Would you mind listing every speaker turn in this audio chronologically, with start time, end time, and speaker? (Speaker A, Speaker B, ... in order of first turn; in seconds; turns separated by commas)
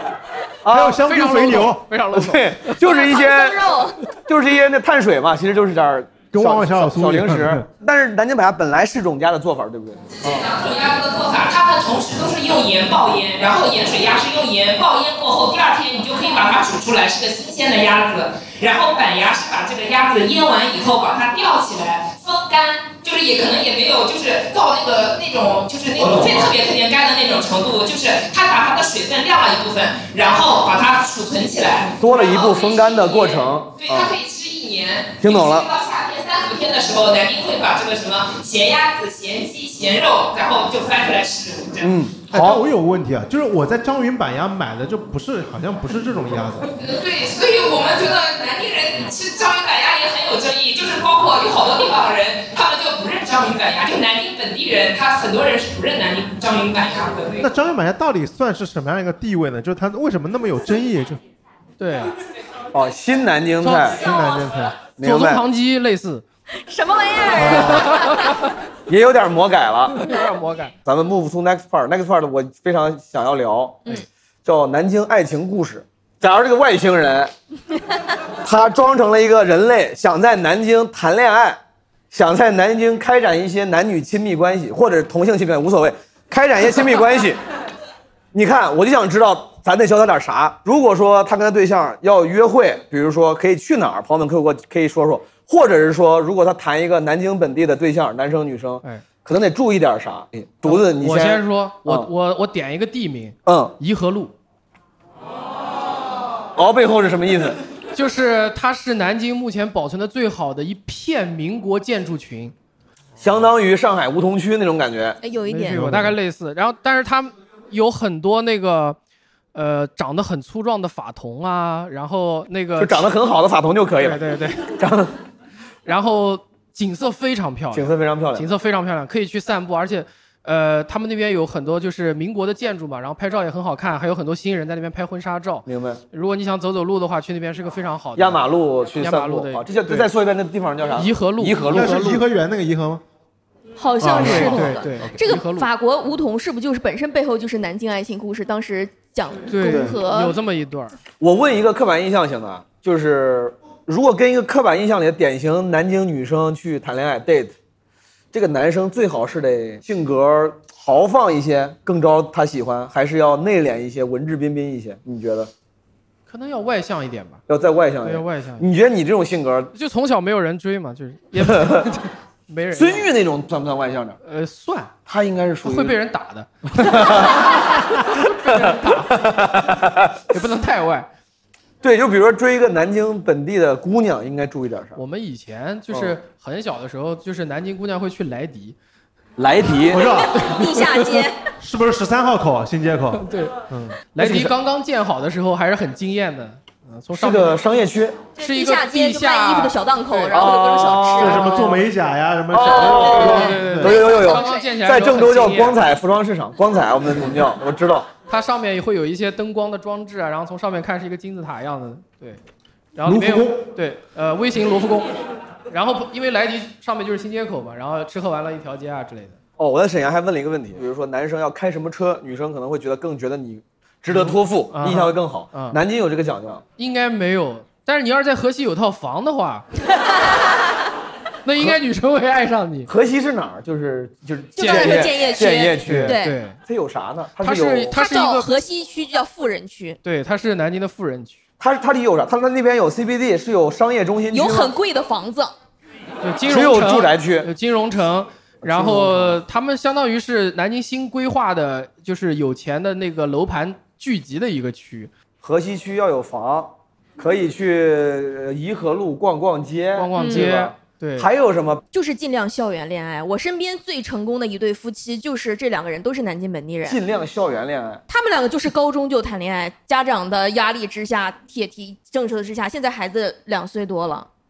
Speaker A: 0.6-1.0, Speaker B: 0.7-1.9, Speaker C: 1.0-2.8, Speaker A: 2.1-3.8, Speaker D: 2.8-4.0, Speaker A: 4.3-10.5, Speaker B: 6.3-7.7, Speaker E: 10.2-41.9, Speaker A: 26.0-26.5, Speaker A: 32.0-34.1, Speaker A: 35.2-35.7, Speaker A: 41.8-42.6, Speaker B: 42.2-46.7, Speaker E: 46.8-57.5, Speaker B: 57.4-61.2, Speaker C: 61.8-62.1, Speaker A: 62.7-64.0, Speaker C: 63.6-64.1, Speaker B: 63.9-64.9, Speaker A: 64.9-65.4, Speaker C: 65.0-66.2, Speaker D: 66.7-68.2, Speaker C: 67.4-68.3, Speaker A: 67.4-67.8, Speaker A: 68.9-70.0, Speaker C: 69.9-70.7, Speaker A: 70.8-73.9, Speaker A: 74.4-77.3, Speaker A: 78.4-81.6, Speaker A: 82.1-87.4, Speaker A: 88.3-102.1, Speaker C: 100.6-104.3, Speaker A: 103.5-103.7, Speaker A: 106.5-107.6, Speaker C: 107.9-112.5, Speaker A: 113.2-115.2, Speaker D: 115.2-115.8, Speaker C: 115.5-119.0, Speaker B: 115.7-116.2, Speaker C: 119.5-123.1, Speaker A: 122.8-125.1, Speaker C: 124.0-124.6, Speaker C: 125.8-138.4, Speaker A: 127.7-128.5, Speaker A: 135.7-136.0, Speaker A: 138.2-142.2, Speaker C: 139.0-140.1, Speaker C: 140.9-142.2, Speaker B: 141.7-143.0, Speaker D: 143.8-150.3, Speaker B: 144.0-145.0, Speaker C: 144.0-145.7, Speaker C: 149.5-151.0, Speaker B: 149.6-149.9, Speaker A: 151.2-157.5, Speaker A: 158.3-165.5, Speaker C: 166.3-167.4, Speaker A: 167.5-169.7, Speaker C: 168.0-168.7, Speaker C: 169.7-173.1, Speaker A: 171.4-171.9, Speaker A: 172.7-174.2, Speaker C: 174.2-174.9, Speaker A: 175.1-176.0, Speaker C: 175.6-177.5, Speaker A: 176.7-177.5, Speaker C: 178.1-179.6, Speaker A: 178.7-180.2, Speaker C: 180.3-181.1, Speaker A: 181.8-185.0, Speaker C: 184.9-188.8, Speaker A: 185.9-186.2, Speaker A: 189.4-190.2, Speaker B: 189.8-190.5, Speaker D: 190.0-191.4, Speaker C: 190.3-190.9, Speaker B: 191.6-194.1, Speaker C: 193.1-193.6, Speaker C: 194.1-197.6, Speaker A: 194.2-194.5, Speaker A: 197.1-198.2, Speaker C: 198.4-200.5, Speaker D: 198.4-201.7, Speaker A: 200.3-201.7, Speaker B: 201.1-203.9, Speaker C: 201.3-201.8, Speaker A: 202.5-208.1, Speaker C: 202.6-205.8, Speaker D: 202.7-204.7, Speaker C: 208.3-212.4, Speaker C: 212.9-215.1, Speaker B: 213.1-213.6, Speaker C: 215.7-219.4, Speaker A: 219.6-226.6, Speaker C: 224.1-225.8, Speaker C: 226.8-229.7, Speaker C: 231.4-232.9, Speaker A: 232.9-237.9, Speaker C: 234.6-235.3, Speaker D: 234.6-236.3, Speaker C: 235.8-236.6, Speaker C: 237.4-238.5, Speaker D: 237.9-240.0, Speaker C: 240.0-241.4, Speaker A: 241.6-244.7, Speaker D: 244.3-245.5, Speaker C: 246.2-255.1, Speaker A: 246.5-247.5, Speaker A: 248.6-249.4, Speaker A: 255.4-261.8, Speaker C: 259.9-261.3, Speaker D: 260.1-260.5, Speaker D: 261.9-267.0, Speaker A: 266.8-268.0, Speaker D: 268.1-274.3